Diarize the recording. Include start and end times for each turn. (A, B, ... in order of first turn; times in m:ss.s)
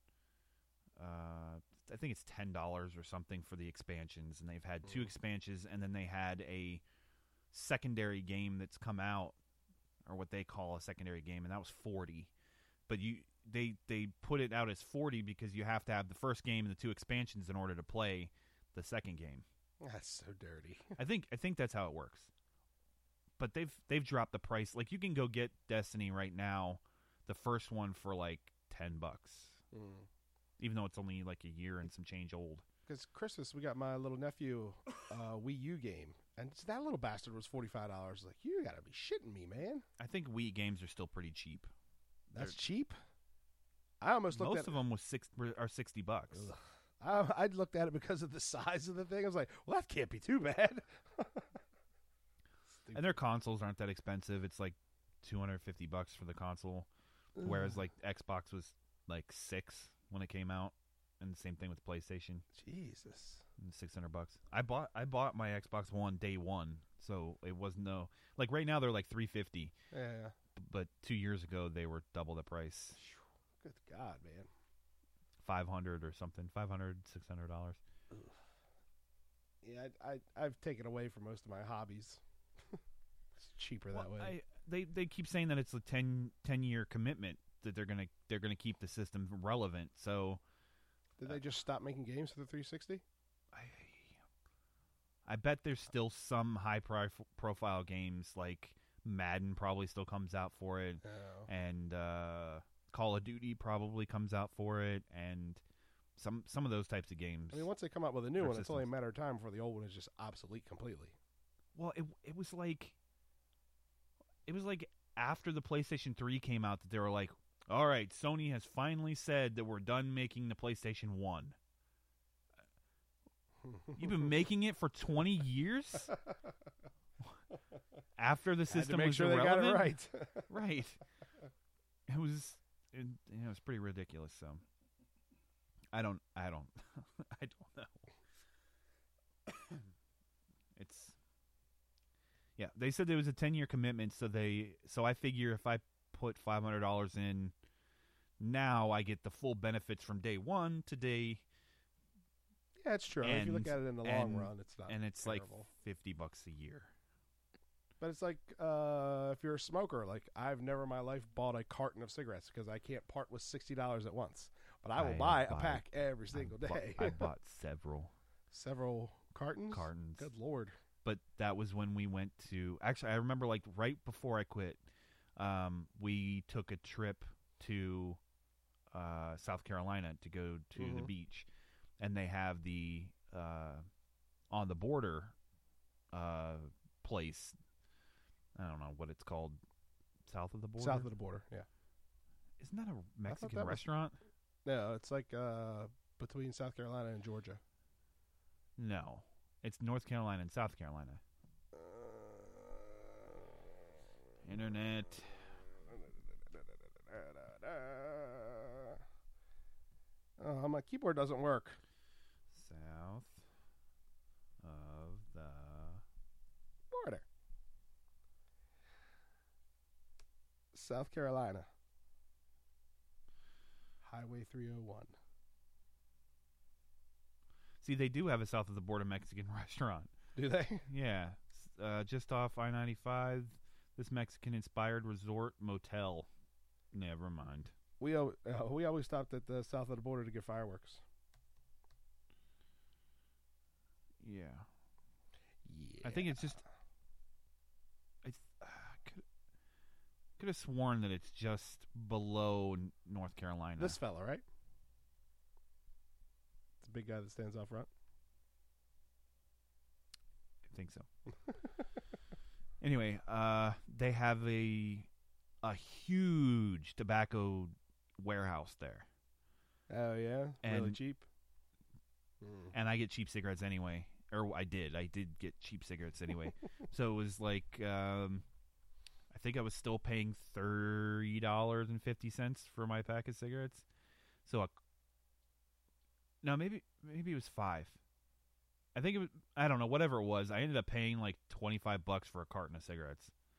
0:01.0-0:06.8 A
0:04.8-0:05.1 B
0:07.5-0:09.4 A
0:10.0-0:12.3 A
0:12.9-0:19.4 A
0:19.8-0:21.0 B
0:21.0-0:22.3 A
0:23.4-0:29.6 A
0:29.7-0:30.1 B
0:30.6-0:32.6 A
0:32.9-0:39.8 B
0:40.0-0:41.7 A
0:42.3-0:43.0 B
0:44.0-0:44.8 B
0:44.3-0:46.5 A
0:46.3-0:51.5 B
0:52.8-0:53.2 B
0:52.9-0:56.9 A
0:57.4-0:57.7 B
0:57.4-1:02.4 A
1:02.5-1:03.4 B
1:03.6-1:09.7 A
1:09.9-1:10.3 B
1:10.6-1:13.0 A
1:13.0-1:14.5 B
1:15.4-1:17.8 A
1:19.6-1:22.2 B
1:23.4-1:24.4 B
1:23.9-1:30.4 A
1:31.2-1:33.0 B
1:33.5-1:34.2 A
1:35.2-1:45.6 A
1:41.0-1:41.5 B
1:46.2-1:47.7 A
1:47.5-1:51.2 B
1:48.4-1:48.9 A
1:51.8-1:53.0 A
1:54.5-2:01.6 A
2:03.6-2:04.3 B
2:04.0-2:06.1 A
2:08.2-2:11.0 A
2:08.7-2:10.5 B
2:12.1-2:14.6 A
2:15.9-2:18.1 A
2:20.8-2:21.2 A
2:22.6-2:27.5 A
2:28.4-2:31.4 A
2:32.8-2:35.7 B
2:33.2-2:36.9 A
2:38.0-2:47.3 B
2:45.0-2:48.1 A
2:48.5-2:50.8 B
2:49.7-2:50.3 A
2:51.0-2:54.8 A
2:55.4-2:58.2 A
2:58.9-3:01.5 A
3:00.8-3:01.1 B
3:02.0-3:03.8 A
3:04.5-3:05.4 A
3:06.1-3:07.6 A
3:08.6-3:09.6 A
3:10.3-3:11.1 A
3:10.8-3:11.7 B
3:12.6-3:14.2 A
3:13.3-3:13.8 B
3:14.6-3:17.6 B
3:18.8-3:21.2 A
3:21.7-3:24.0 B
3:24.4-3:25.5 A
3:25.8-3:29.0 B
3:30.4-3:31.8 B
3:32.5-3:33.4 A
3:34.6-3:36.0 A
3:36.9-3:37.3 B
3:40.7-3:41.7 B
3:44.0-3:45.2 B
3:47.8-3:50.1 A
3:50.4-3:50.9 B
3:50.9-3:56.3 A
3:56.9-3:57.7 A
3:58.0-4:01.0 B
4:04.2-4:04.7 A
4:05.6-4:06.6 B
4:06.0-4:06.6 A
4:08.2-4:09.2 A
4:10.4-4:14.0 A
4:13.8-4:14.4 B
4:16.8-4:17.9 B
4:20.7-4:21.1 A
4:22.8-4:25.1 A
4:25.6-4:29.1 A
4:29.9-4:31.3 B
4:30.6-4:31.0 A
4:32.4-4:32.7 B
4:32.7-4:38.4 A
4:39.3-4:43.9 A
4:44.5-4:44.8 A
4:46.4-4:48.0 A
4:49.0-4:53.3 A